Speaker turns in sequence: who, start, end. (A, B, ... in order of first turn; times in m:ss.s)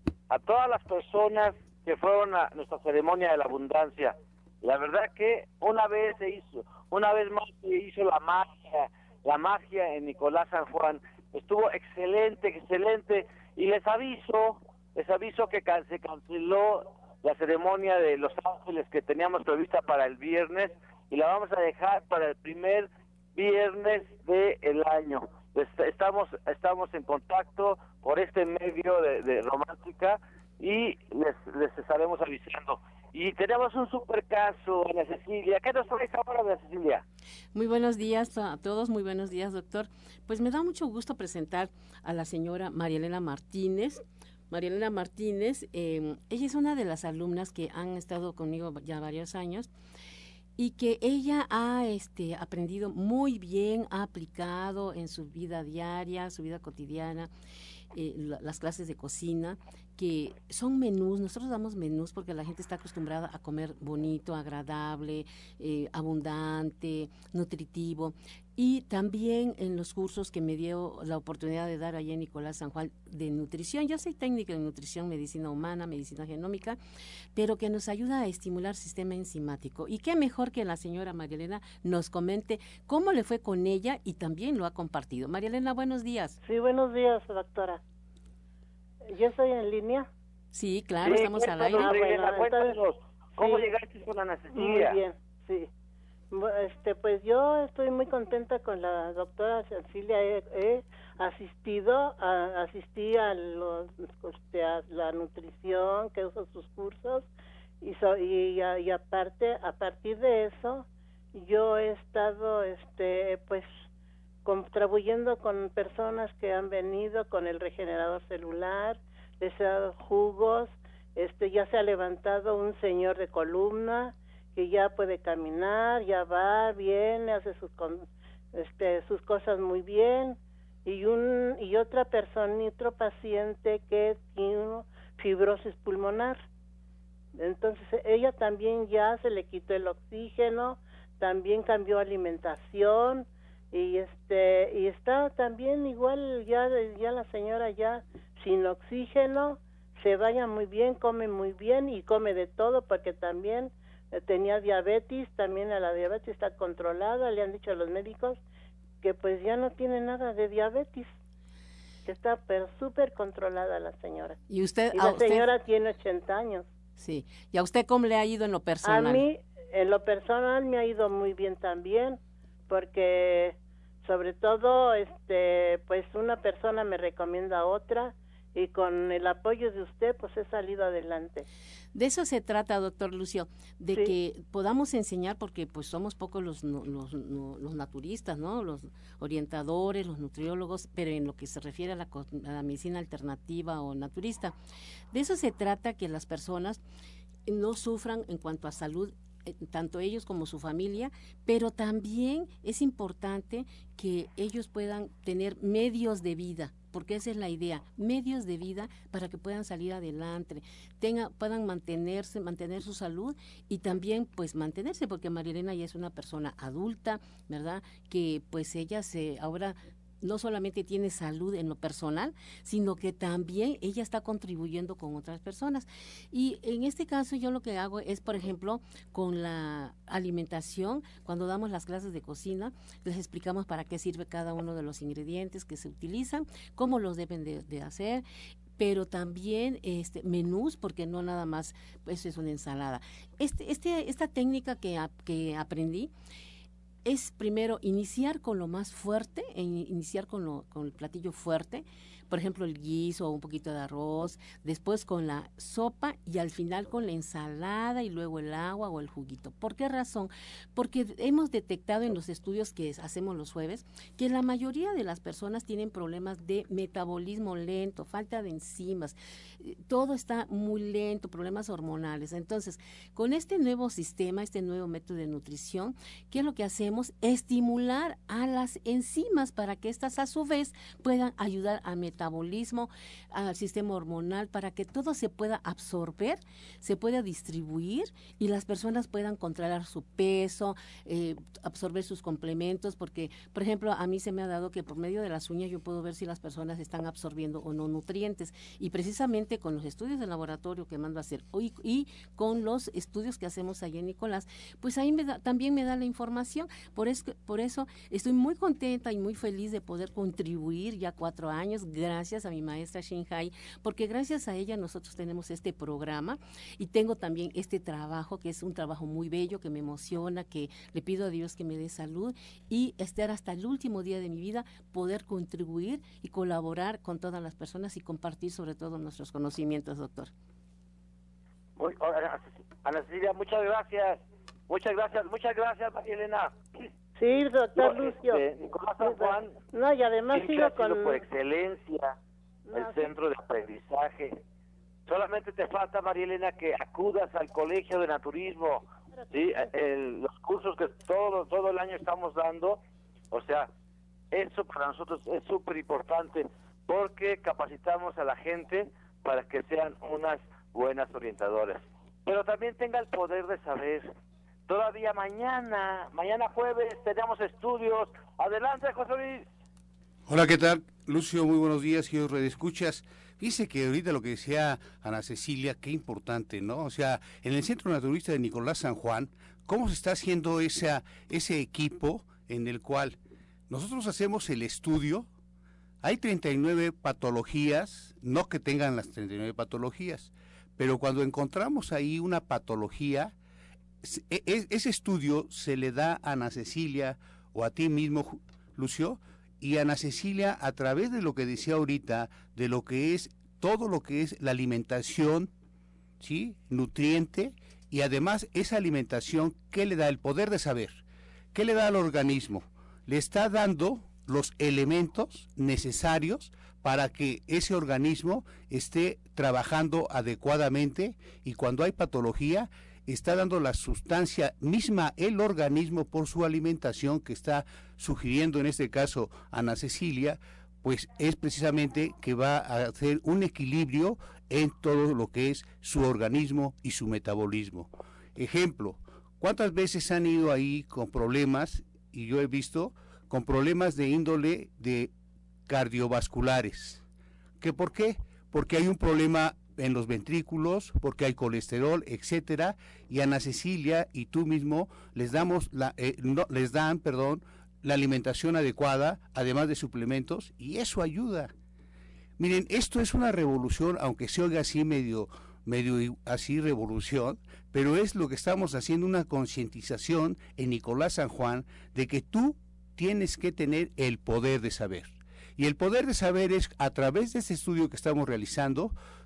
0:00.3-0:37.0 A
0:37.5-0:49.7 B
0:50.6-0:57.3 B
0:57.9-1:16.8 B
1:17.3-1:26.4 B
1:26.4-1:27.8 C
1:29.0-1:30.1 C
1:30.5-1:31.9 B
1:31.0-1:35.0 A
1:31.7-1:32.8 C
1:33.3-1:33.7 C
1:34.5-1:35.7 C
1:36.3-1:47.3 C
1:47.8-1:53.7 C
1:54.4-2:16.4 C
2:17.4-2:38.4 C
2:39.0-2:41.1 C
2:42.0-2:44.4 C
2:44.5-2:45.5 B
2:44.9-2:46.6 C
2:47.0-2:49.2 B
2:48.8-3:01.4 C
3:01.9-3:14.5 B
3:15.1-3:16.8 B
3:17.5-3:19.1 B
3:19.6-3:58.2 B
3:58.8-4:06.1 B
4:07.0-5:30.3 B
5:31.8-5:36.6 A
5:37.2-5:38.4 C
5:37.8-5:39.6 A
5:39.0-5:41.2 C
5:40.3-5:42.2 A
5:42.6-5:43.1 C
5:42.7-5:44.4 A
5:45.1-5:53.7 A
5:54.3-6:04.1 A
6:04.7-6:09.4 A
6:10.3-6:23.2 D
6:23.7-6:25.3 D
6:26.0-6:33.3 D
6:34.0-6:45.5 D
6:46.2-7:25.1 D
7:25.7-7:27.0 D
7:27.6-7:41.5 D
7:42.4-7:58.9 D